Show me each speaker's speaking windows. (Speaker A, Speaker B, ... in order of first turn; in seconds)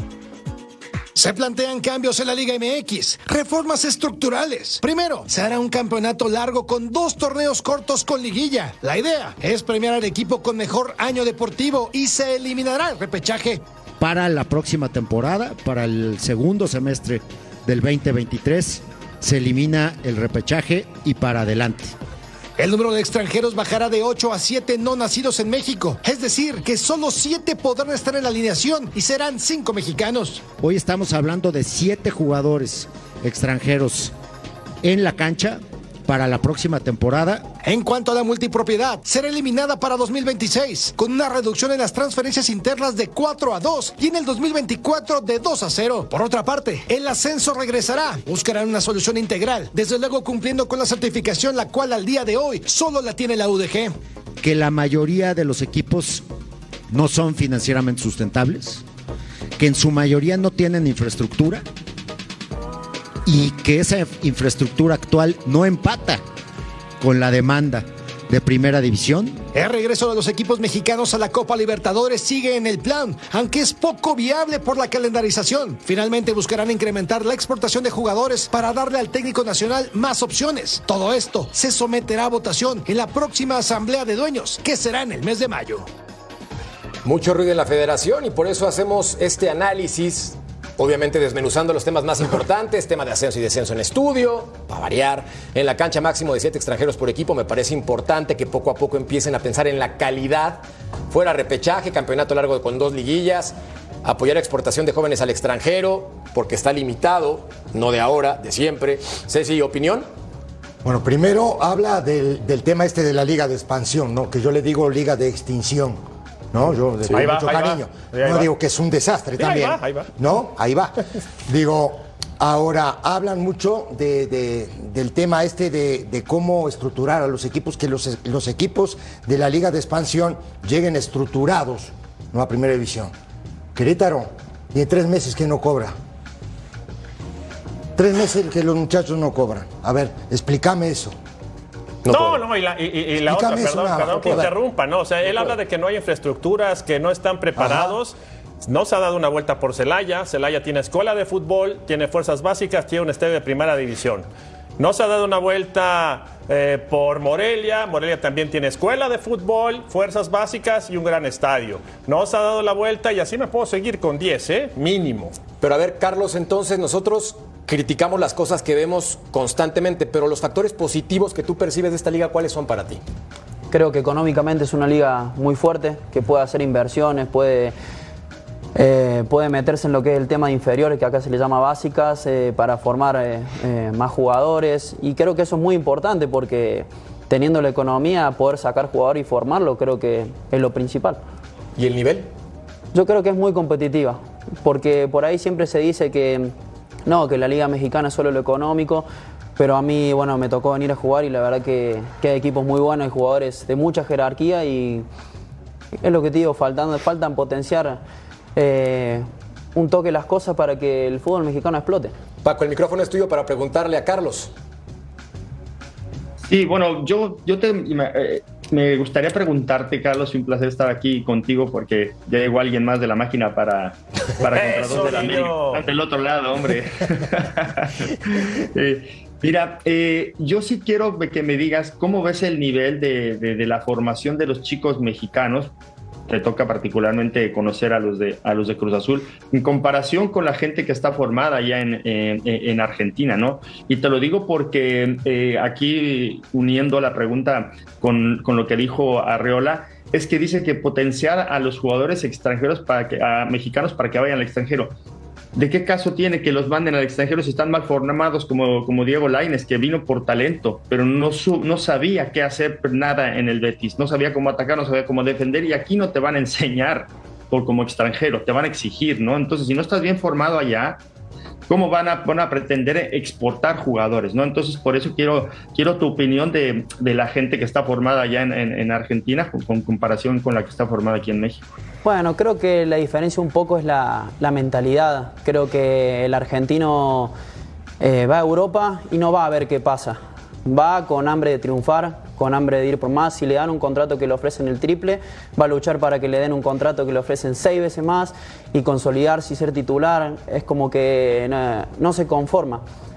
Speaker A: 1.1-13.6, 22.6-30.5, 37.6-53.9, 69.5-85.9
Speaker B: 14.0-21.9, 30.5-34.1, 34.8-37.5, 54.4-56.3, 56.9-58.8, 59.6-61.6, 63.2-66.2, 67.0-69.5
Speaker C: 87.0-110.1, 142.0-142.4, 165.6-173.0, 191.8-192.3, 212.4-214.5
Speaker D: 110.8-116.0, 116.5-133.1, 133.8-135.9, 138.0-141.2, 143.2-144.6, 147.6-148.0
Speaker E: 117.1-118.5, 119.4-120.1, 142.1-154.3, 154.8-165.4, 224.5-225.9
Speaker F: 173.7-177.8, 178.8-191.2, 192.9-196.5, 197.1-205.1, 206.0-208.0, 208.6-212.1, 282.0-287.3, 288.0-302.8
Speaker G: 216.5-235.7, 236.3-254.9, 255.6-271.0, 271.7-281.7